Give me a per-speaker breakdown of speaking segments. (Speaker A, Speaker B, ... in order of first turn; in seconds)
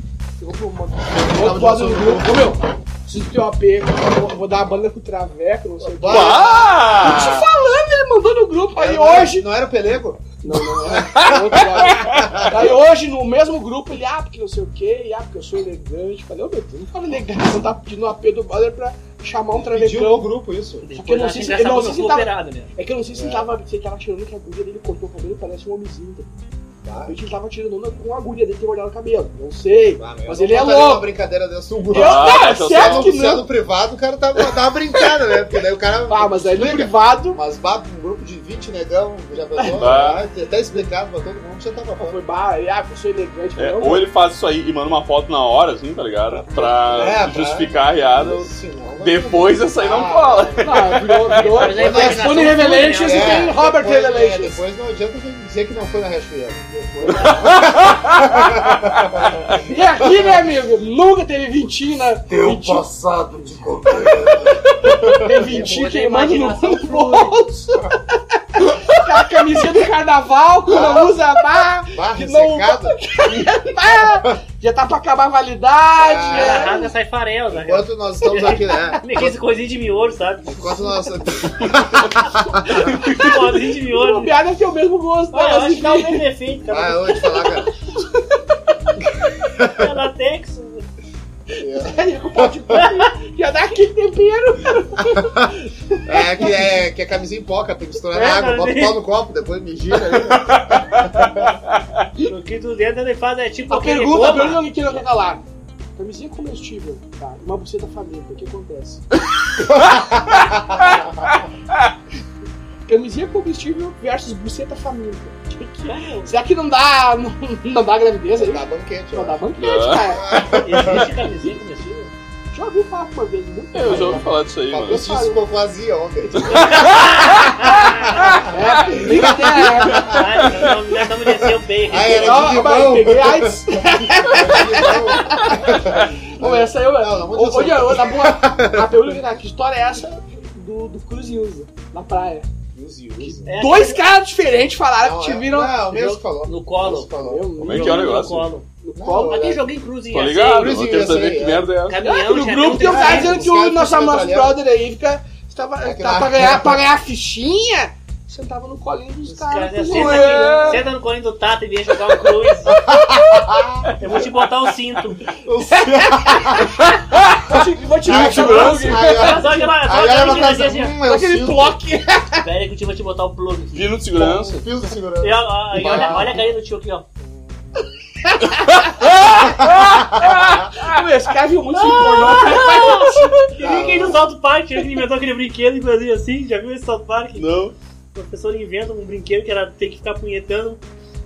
Speaker A: 0.4-9.4, 10.4-20.2, 20.9-26.3, 27.1-31.1, 31.9-33.5, 36.1-37.4, 39.5-39.8, 42.0-44.1, 50.6-54.6, 56.6-57.7, 59.6-62.9, 63.5-68.0, 68.5-76.9, 82.5-86.2, 91.5-96.7, 103.7-105.4, 106.0-109.0, 112.8-120.6, 122.5-124.3, 124.9-125.4, 128.5-130.0, 132.1-142.5, 143.2-145.8, 147.2-149.6, 152.0-160.9, 166.0-166.8, 167.4-169.7, 171.0-172.5, 174.2-174.6, 175.9-176.3, 178.2-179.1, 179.7-183.5
Speaker B: 1.1-2.4, 5.8-6.5, 8.7-10.3, 11.0-12.7, 19.6-20.9, 23.1-23.5, 26.8-27.1, 30.0-42.2, 46.5-50.8, 51.6-59.4, 60.0-60.5, 62.3-65.7, 70.7-71.1, 71.9-73.4, 76.0-76.7, 77.5-79.3, 80.5-83.0, 86.7-87.7, 89.6-89.8, 91.6-92.6, 96.0-101.5, 109.6-111.0, 118.3-119.4, 120.1-121.1, 123.9-127.0, 127.7-130.5, 131.8-139.1, 142.7-143.5, 145.0-147.5, 148.9-149.6, 150.6-151.7, 152.6-154.6, 155.8-156.8, 162.7-163.9, 165.4-166.8, 168.0-171.8, 174.5-176.4, 179.7-180.5, 183.6-184.3
Speaker C: 6.0-7.5, 11.8-12.3, 31.9-33.1, 39.8-40.2, 43.6-52.4, 100.5-101.2, 119.6-120.1, 123.7-125.1, 126.3-127.7, 147.6-148.5, 150.1-152.0, 159.9-160.8, 163.9-164.3, 168.0-169.0, 173.7-174.7, 175.8-176.4, 178.7-180.2, 187.3-187.7
Speaker D: 20.9-22.7, 51.5-53.5, 65.3-67.5, 76.2-81.0, 82.7-84.3, 85.3-87.2, 89.6-90.8, 92.7-93.1, 98.1-99.0, 102.2-104.6, 115.9-116.4, 120.4-122.1, 126.5-128.3, 129.1-132.6, 143.4-144.0, 145.9-147.1, 147.7-148.7, 149.2-150.7, 151.8-153.5, 159.3-162.8, 164.0-165.4, 169.0-170.9, 172.4-173.8, 175.2-177.1, 181.7-187.5, 188.1-190.8